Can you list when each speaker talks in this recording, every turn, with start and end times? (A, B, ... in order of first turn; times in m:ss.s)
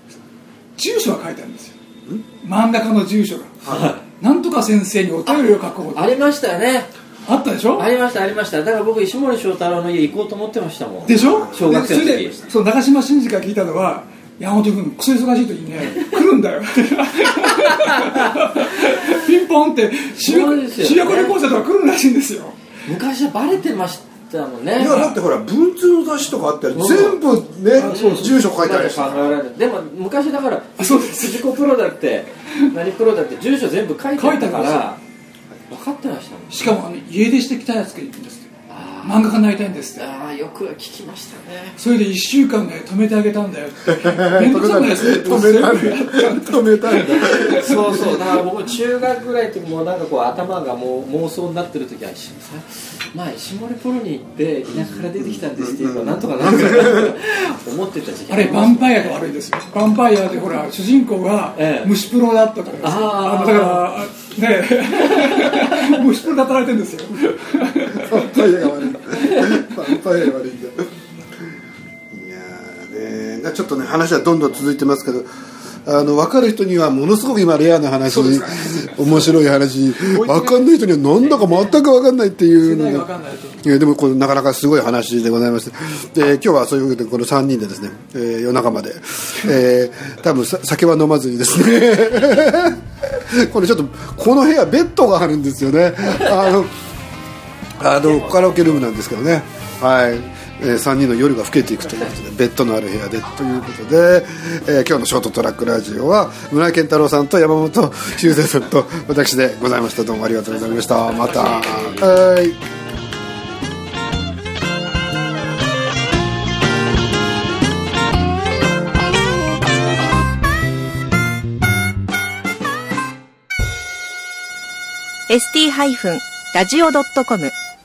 0:00.8-0:01.8 A
0:02.4-0:03.6 A
0:03.6-0:03.9 B
0:03.6-0:04.0 C
0:04.2-0:06.0 A
0:05.2-0:06.9 C
0:07.2-0:07.9 A
0:07.7-0:12.5 C
0:11.0-0:22.6 A
0:11.1-0:12.4 B
0:15.8-0:16.1 C
0:17.4-0:18.3 C
0:20.1-0:21.4 C
0:22.8-0:25.1 C
0:24.8-0:29.3 B
0:24.8-0:25.2 A
0:26.7-0:27.2 C
0:27.7-0:28.4 A
0:27.8-0:35.0 C
0:30.8-0:31.6 A
0:34.2-0:34.9 A
0:35.7-0:36.7 C
0:36.5-0:38.5 A
0:38.7-0:39.4 C
0:39.0-0:40.1 A
0:39.9-0:41.8 C
0:41.8-0:48.1 A
0:43.8-0:48.3 B
0:47.2-0:59.2 C
0:54.7-0:57.2 B
0:58.3-1:08.2 A
1:01.5-1:02.0 C
1:02.8-1:03.9 C
1:05.2-1:05.7 C
1:07.9-1:10.9 B
1:12.1-1:15.3 B
1:15.8-1:23.1 B
1:18.1-1:19.4 A
1:20.0-1:20.7 A
1:21.3-1:21.6 A
1:22.6-1:23.6 A
1:23.6-1:36.7 B
1:37.8-1:52.6 B
1:38.0-1:38.8 C
1:50.5-1:52.2 C
2:05.3-2:07.5 D